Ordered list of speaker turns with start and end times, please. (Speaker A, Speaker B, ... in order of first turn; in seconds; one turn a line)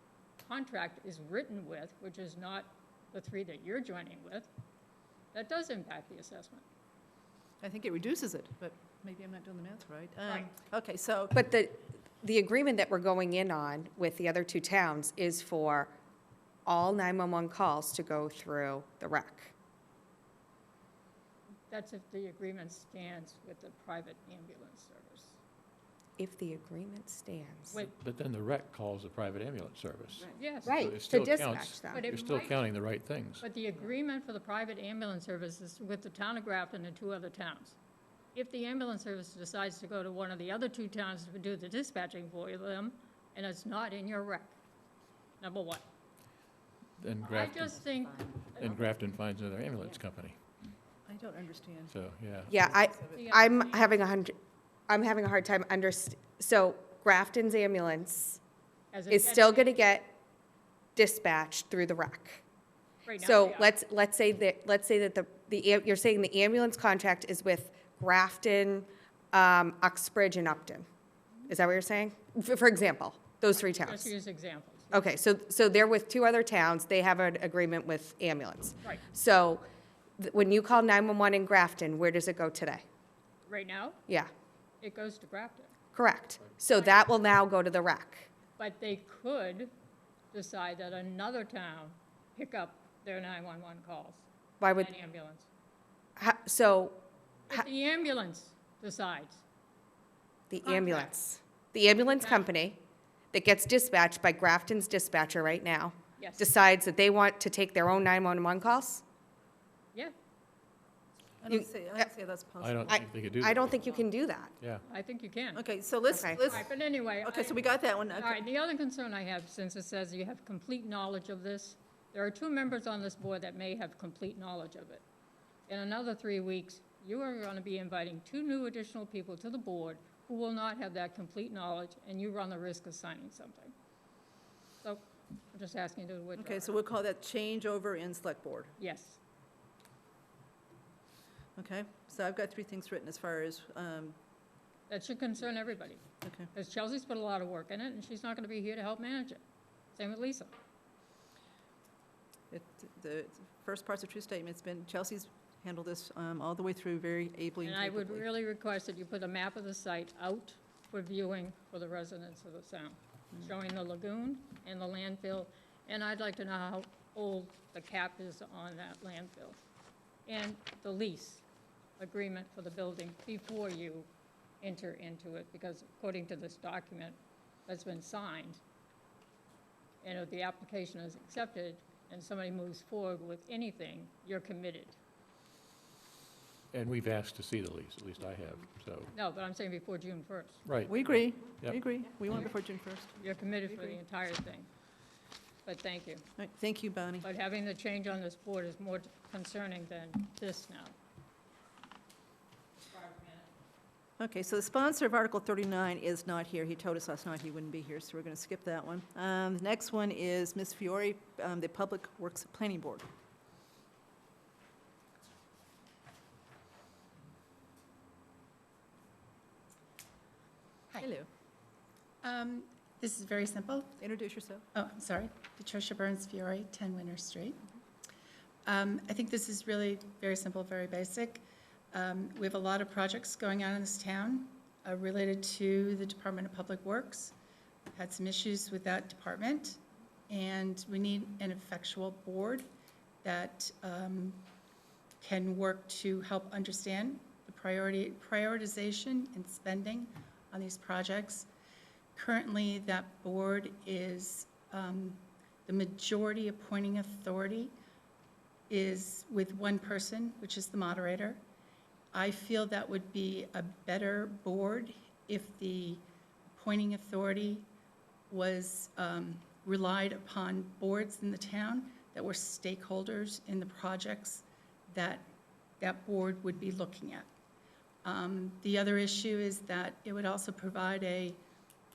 Speaker A: 0.4-4.5
Speaker A: 5.3-6.6
Speaker B: 7.6-11.3
Speaker C: 11.3-15.9
Speaker C: 16.6-19.5
Speaker A: 21.7-25.4
Speaker C: 26.2-27.8
Speaker D: 27.9-33.4
Speaker A: 30.4-30.8
Speaker C: 30.6-32.0
Speaker A: 31.9-32.6
Speaker A: 33.4-37.8
Speaker A: 38.3-44.6
Speaker A: 45.4-45.8
Speaker D: 47.0-47.7
Speaker A: 47.2-48.8
Speaker D: 48.5-50.4
Speaker B: 51.0-51.9
Speaker D: 51.9-52.6
Speaker C: 52.5-54.4
Speaker B: 52.6-53.2
Speaker A: 53.1-53.9
Speaker C: 54.9-58.4
Speaker A: 58.9-59.8
Speaker C: 59.1-60.1
Speaker C: 61.0-62.4
Speaker A: 63.0-63.7
Speaker C: 63.2-70.9
Speaker C: 71.5-74.1
Speaker A: 73.6-74.9
Speaker C: 74.9-79.6
Speaker C: 80.2-82.8
Speaker A: 83.5-84.0
Speaker A: 84.8-85.7
Speaker C: 85.9-88.3
Speaker A: 86.8-87.0
Speaker A: 88.6-89.7
Speaker A: 90.3-95.5
Speaker C: 94.6-94.9
Speaker C: 96.2-97.0
Speaker A: 97.5-99.4
Speaker C: 100.5-102.8
Speaker A: 100.6-101.1
Speaker A: 102.2-102.5
Speaker C: 103.3-109.0
Speaker A: 106.2-106.5
Speaker B: 111.4-113.0
Speaker C: 111.5-112.1
Speaker D: 112.6-113.8
Speaker C: 112.9-114.5
Speaker A: 114.9-115.6
Speaker B: 115.5-116.6
Speaker C: 116.1-116.4
Speaker A: 116.4-117.6
Speaker B: 117.2-118.4
Speaker A: 118.2-125.0
Speaker A: 125.7-133.7
Speaker A: 134.8-136.7
Speaker B: 136.3-138.7
Speaker A: 138.8-139.2
Speaker B: 141.6-144.2
Speaker A: 144.9-149.4
Speaker B: 146.2-146.5
Speaker A: 149.9-150.5
Speaker B: 152.5-158.2
Speaker A: 157.6-169.6
Speaker A: 170.3-171.4
Speaker A: 172.0-174.1
Speaker A: 174.6-178.6
Speaker A: 180.0-185.0
Speaker D: 186.7-189.1
Speaker A: 189.1-190.6
Speaker D: 190.6-191.8
Speaker B: 190.9-194.0
Speaker A: 193.2-194.7
Speaker A: 195.6-196.2
Speaker B: 196.4-197.3
Speaker A: 197.2-200.9
Speaker A: 202.9-203.5
Speaker B: 204.2-213.1
Speaker B: 221.0-221.3
Speaker E: 222.2-224.0
Speaker B: 224.0-224.6
Speaker E: 224.7-227.6
Speaker E: 228.7-237.3
Speaker E: 237.9-242.7
Speaker E: 243.2-244.5
Speaker E: 245.2-251.5
Speaker E: 252.2-257.7
Speaker E: 258.7-261.4
Speaker E: 262.1-266.0
Speaker E: 266.5-267.7
Speaker E: 268.3-275.3
Speaker E: 275.8-277.3
Speaker E: 278.0-281.4